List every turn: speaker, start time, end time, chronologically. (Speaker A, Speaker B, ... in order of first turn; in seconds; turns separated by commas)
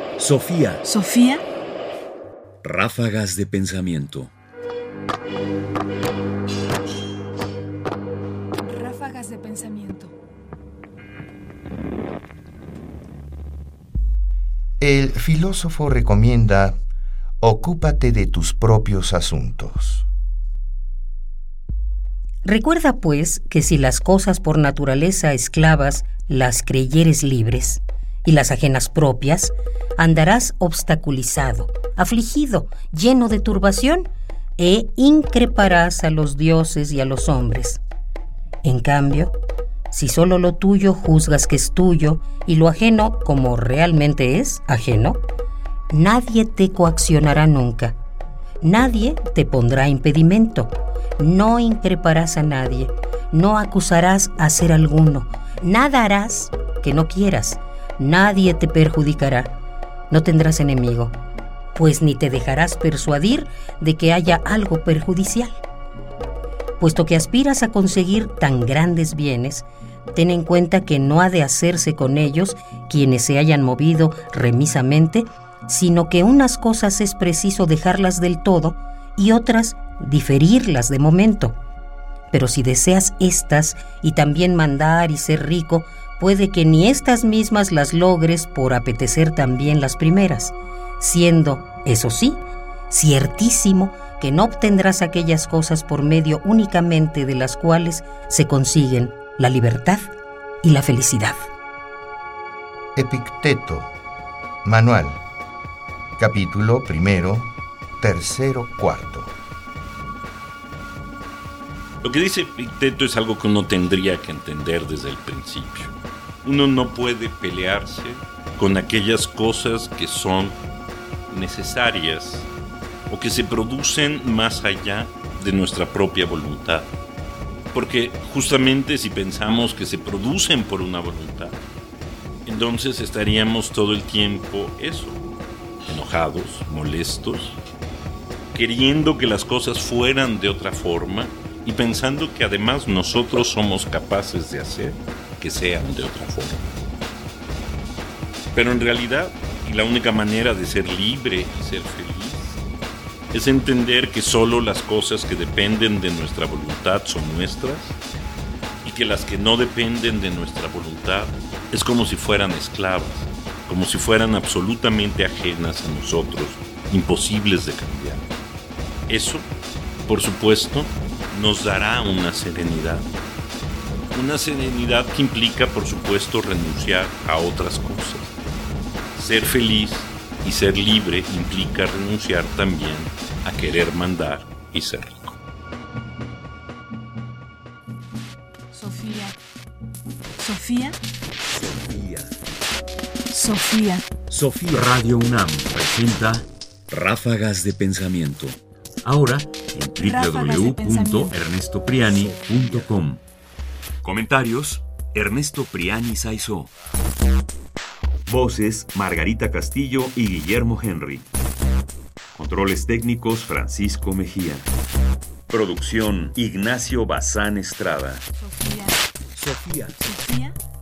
Speaker A: 0.2-0.8, Speaker B: 0.8-1.4, Speaker A: 2.6-4.3, Speaker B: 8.6-10.1, Speaker C: 14.8-16.8, Speaker C: 17.4-20.1, Speaker D: 22.4-37.8, Speaker D: 38.6-39.3, Speaker D: 39.9-45.2, Speaker D: 45.9-48.0, Speaker D: 48.6-59.5, Speaker D: 60.1-61.1, Speaker D: 61.8-65.6, Speaker D: 66.8-81.5, Speaker D: 82.3-101.4, Speaker C: 103.0-103.9, Speaker C: 104.6-105.2, Speaker C: 106.2-109.3, Speaker E: 112.0-120.6, Speaker E: 121.3-122.5, Speaker E: 123.1-126.9, Speaker E: 127.7-131.6, Speaker E: 132.4-135.2, Speaker E: 135.8-137.6, Speaker E: 138.5-146.8, Speaker E: 148.5-152.6, Speaker E: 153.3-158.0, Speaker E: 158.8-168.2, Speaker E: 169.1-169.5, Speaker E: 170.1-173.1, Speaker E: 174.1-178.3, Speaker E: 179.2-185.4, Speaker B: 188.7-189.4, Speaker B: 190.4-191.0, Speaker A: 191.5-192.3, Speaker B: 193.3-194.1, Speaker A: 194.3-203.2, Speaker B: 199.9-201.3, Speaker A: 204.0-206.7, Speaker A: 208.3-211.3, Speaker A: 212.3-214.7, Speaker A: 215.5-218.2, Speaker B: 218.4-219.0, Speaker A: 219.3-220.1, Speaker B: 220.0-220.6